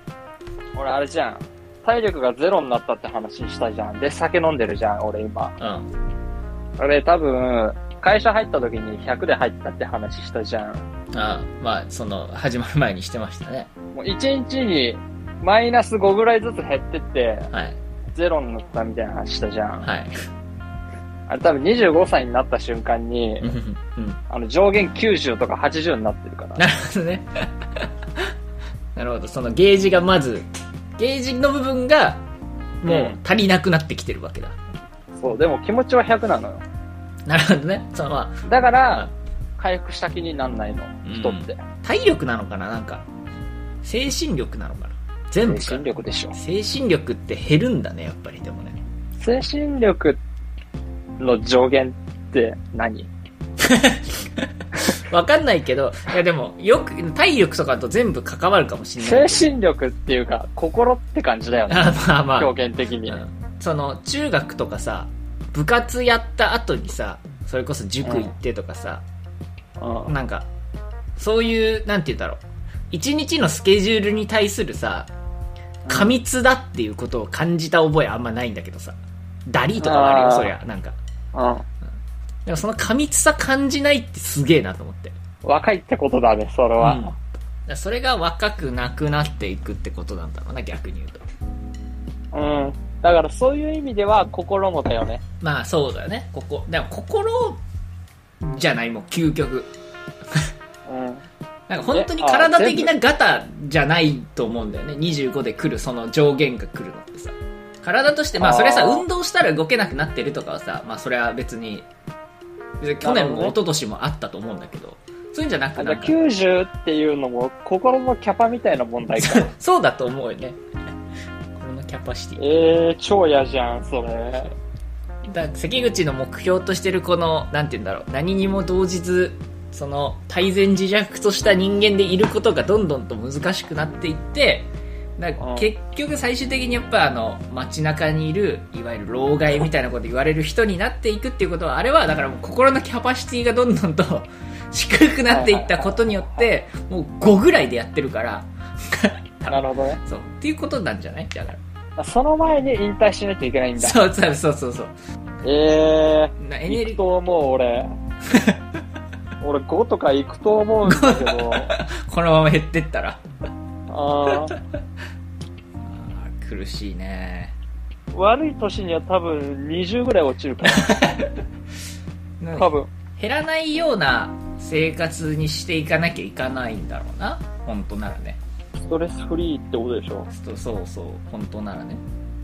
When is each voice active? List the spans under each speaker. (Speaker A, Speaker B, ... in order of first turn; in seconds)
Speaker A: 0.8-5.6, 6.8-10.9, 13.9-17.5, 18.1-19.9, 21.3-23.6, 24.3-26.6, 32.9-33.2, 35.2-36.6, 38.5-41.6, 45.4-46.4, 49.2-50.2, 51.2-53.1, 59.0-63.2, 68.0-68.3, 69.8-70.1, 75.9-76.2, 79.8-80.5, 81.3-81.7, 85.4-87.2, 92.3-95.2, 100.9-101.2, 101.9-102.9, 108.4-109.0, 113.0-113.5, 115.8-119.5, 122.4-124.5, 135.4-135.7, 145.3-146.5, 149.5-150.0, 152.0-154.0, 155.4-158.0, 159.4-161.8, 163.9-164.6, 168.1-171.0, 172.6-172.9, 178.8-180.3
Speaker B: 5.6-5.9, 11.1-13.7, 17.5-17.8, 19.8-20.2, 23.4-24.2, 26.6-28.3, 28.9-32.2, 32.8-34.6, 37.3-39.1, 41.0-43.0, 43.8-48.8, 53.6-59.5, 61.7-62.5, 63.1-69.0, 70.1-70.5, 71.2-75.1, 75.9-81.0, 82.5-85.2, 86.8-87.2, 87.7-91.2, 95.4-97.6, 98.4-99.7, 101.7-111.9, 112.8-116.2, 119.2-120.6, 121.5-122.4, 125.3-151.6, 153.8-154.9, 156.4-157.0, 158.3-158.6, 160.8-163.2, 164.3-164.6, 165.9-167.6, 170.7-171.3, 172.4-178.4, 180.3-182.0